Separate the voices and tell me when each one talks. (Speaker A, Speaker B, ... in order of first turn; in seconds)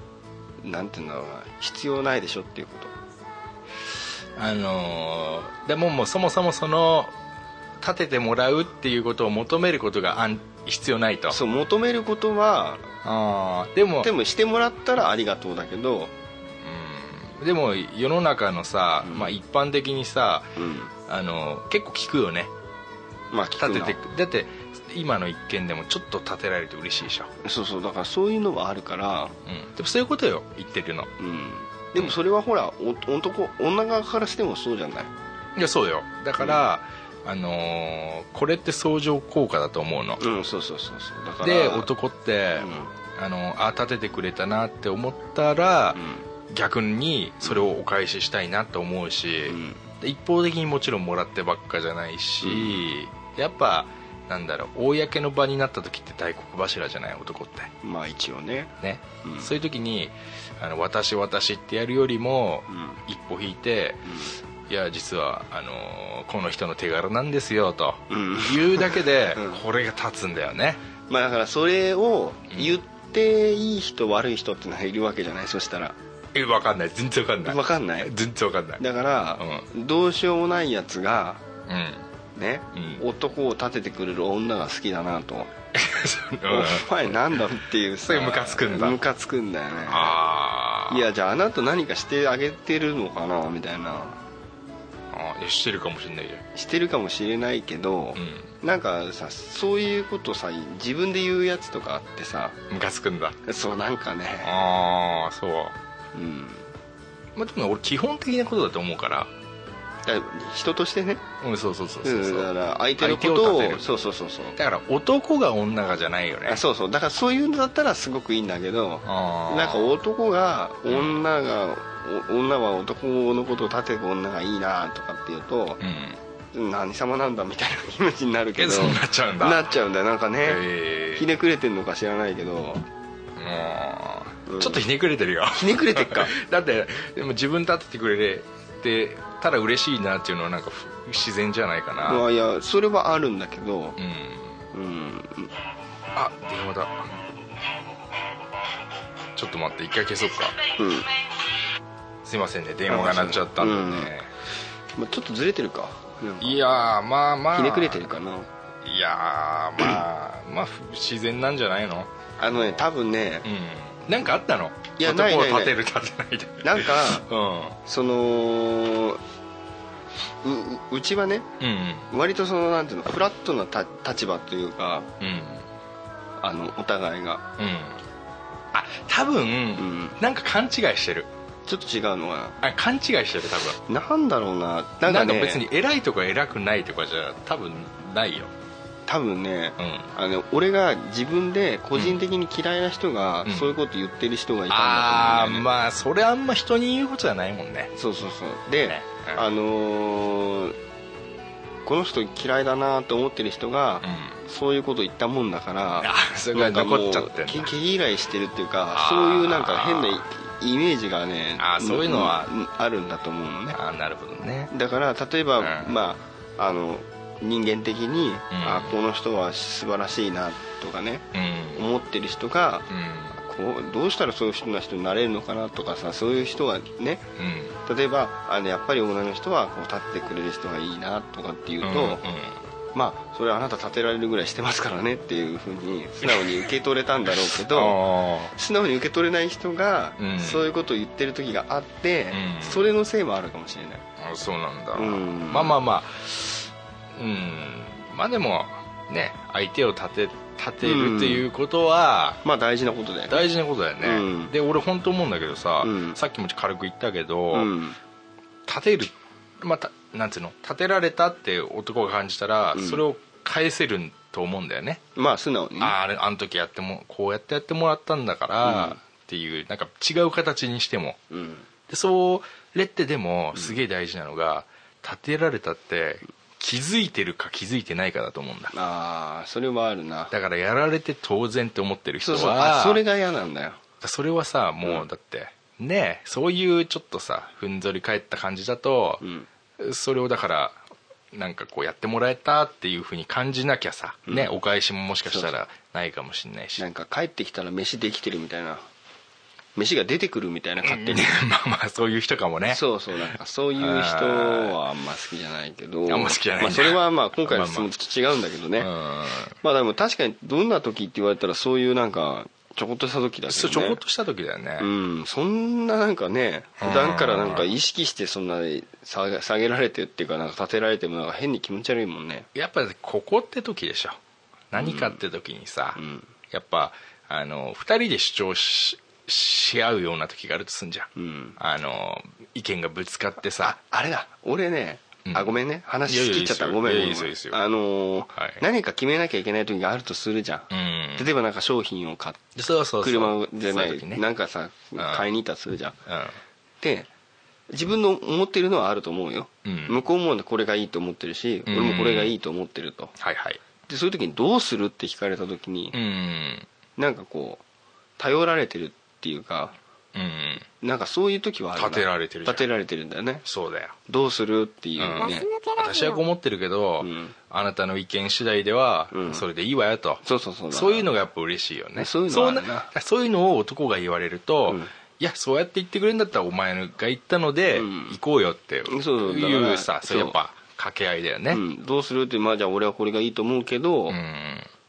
Speaker A: 0.6-2.9, 11.3-12.9, 14.0-16.1, 19.0-19.3, 20.6-20.9, 23.3-24.0, 27.4-29.4, 31.2-35.1, 40.2-41.9, 42.6-42.9, 46.0-46.3, 49.5-49.8, 52.4-52.9, 57.8-59.5, 62.7-63.0, 64.1-64.3, 68.1-69.6, 71.1-76.0, 77.4-78.1, 78.8-81.4, 82.4-85.5, 86.5-90.2, 90.9-94.2, 96.5-102.6, 103.5-104.5, 106.1-106.7, 110.0-111.2, 112.0-114.6, 116.5-125.8, 126.5-130.6, 131.2-132.9, 134.5-134.8, 135.6-136.3, 142.0-144.0, 144.7-145.5, 150.8-151.1, 152.9-154.1, 154.9-156.6, 157.5-158.5, 162.4-163.5, 165.0-165.8, 166.6-167.3, 167.9-169.2, 170.4-171.5, 172.1-175.1, 176.4-177.4, 179.8-180.2, 181.7-182.6, 183.9-185.7, 189.1-195.7, 197.9-200.8, 201.9-213.8, 214.7-222.9, 223.4-227.3, 227.8-232.2, 232.9-238.0, 238.5-244.1, 244.9-245.8, 250.8-251.5, 252.4-253.4, 254.0-254.5, 255.8-256.2, 257.5-258.0, 262.8-263.0, 265.2-265.9, 268.6-269.0, 271.3-271.7, 278.7-280.3, 282.2-283.8, 289.2-289.5, 295.3-295.5, 296.8-298.8, 299.8-301.3, 302.7-308.9, 309.6-314.0, 314.8-322.5, 324.8-325.2, 326.0-326.3, 331.2-331.6, 333.6-342.4, 343.0-346.0, 346.8-347.1, 347.7-353.1, 353.9-356.0, 357.0-357.6, 358.2-359.8, 360.8-363.4, 364.1-365.5, 367.0-367.3, 369.1-369.4, 370.2-371.1, 372.0-372.9, 374.7-374.9, 377.7-378.2, 378.9-380.4, 381.5-384.2
Speaker B: 4.4-7.1, 7.8-11.4, 13.0-14.1, 16.6-20.5, 21.1-22.5, 23.6-27.3, 29.5-31.1, 35.6-40.2, 41.4-57.7, 58.8-70.8, 76.3-78.8, 79.4-79.7, 81.7-82.0, 82.8-83.0, 85.7-87.4, 88.0-89.0, 89.9-91.1, 95.1-96.4, 98.2-98.5, 102.7-103.4, 104.4-105.8, 107.3-109.3, 111.4-113.8, 114.6-116.6, 119.0-119.9, 120.9-121.2, 125.8-126.2, 128.6-129.7, 130.4-131.3, 133.4-142.2, 144.0-144.6, 146.1-147.2, 149.3-150.6, 152.2-154.3, 156.4-158.1, 158.8-162.9, 163.4-167.8, 171.6-172.1, 175.2-175.7, 177.6-178.0, 178.7-181.3, 182.6-183.8, 185.1-188.5, 189.8-190.1, 191.9-192.2, 193.4-193.8, 194.7-197.9, 198.8-199.5, 204.0-204.4, 205.9-207.7, 208.9-210.2, 211.6-212.5, 213.7-214.7, 215.6-215.9, 218.5-219.0, 221.3-221.8, 222.9-223.4, 227.4-227.8, 231.8-232.6, 236.2-236.6, 237.5-238.5, 240.2-240.6, 242.3-242.9, 244.2-252.4, 253.3-257.7, 258.7-265.0, 265.8-271.2, 271.9-278.7, 280.3-283.0, 284.0-289.2, 289.8-290.8, 291.3-296.8, 300.8-302.8, 303.8-304.8, 306.1-307.9, 308.8-309.6, 313.5-314.9, 316.8-317.7, 322.5-324.2, 324.7-326.0, 326.5-333.8, 335.3-337.6, 338.4-338.6, 340.7-341.3, 342.6-344.2, 345.0-345.3, 346.1-346.4, 349.6-350.0, 351.7-352.4, 353.2-353.6, 355.9-356.7, 360.1-360.7, 361.8-362.7, 363.4-364.0, 365.0-381.6, 384.1-384.7